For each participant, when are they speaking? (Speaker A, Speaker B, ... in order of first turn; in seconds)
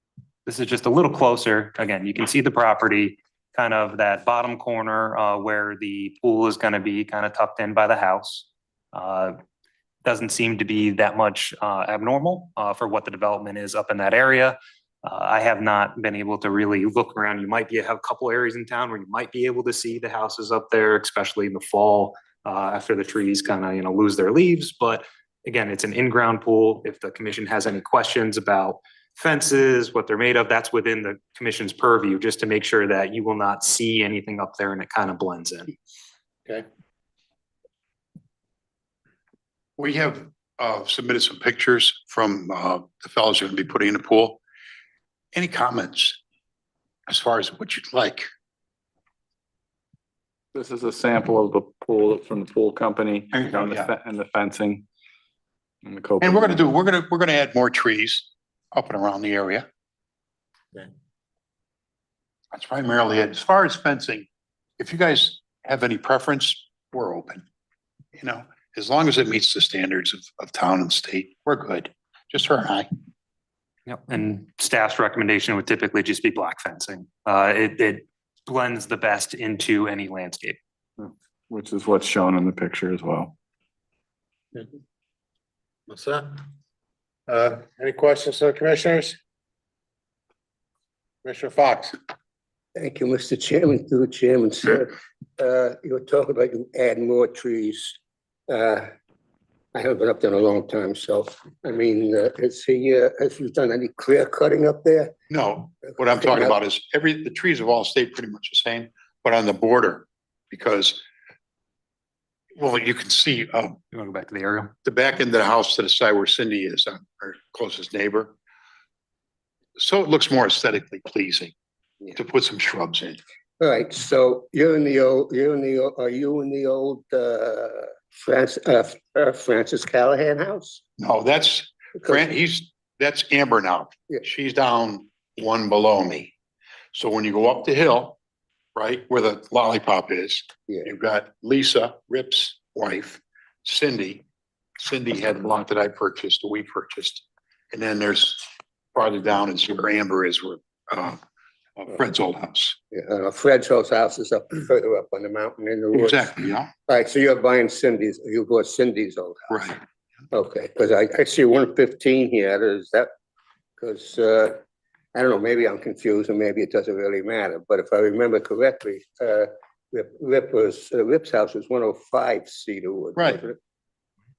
Speaker A: 0.5-9.4, 10.1-35.7, 73.9-80.6, 113.9-114.7
Speaker B: 39.8-44.4, 45.3-46.2, 47.1-48.3, 53.3-53.9, 56.2-59.7, 62.5-64.3, 64.8-67.4, 68.2-72.9, 105.3-111.0, 112.6-113.8, 114.8-118.3, 119.8-121.5, 122.1-123.2, 131.0-136.3, 136.9-138.2, 138.8-144.2, 144.8-151.2, 151.8-152.8, 155.9-156.7, 159.5-159.8
Speaker C: 50.5-54.9, 55.8-56.7, 81.0-83.3
Speaker D: 85.9-86.4, 87.3-89.2, 91.2-92.0
Speaker E: 92.8-98.9, 99.7-105.1, 105.9-106.6, 123.6-130.8, 132.0-132.3, 152.9-159.8, 160.3-163.1, 163.8-164.6, 165.2-173.6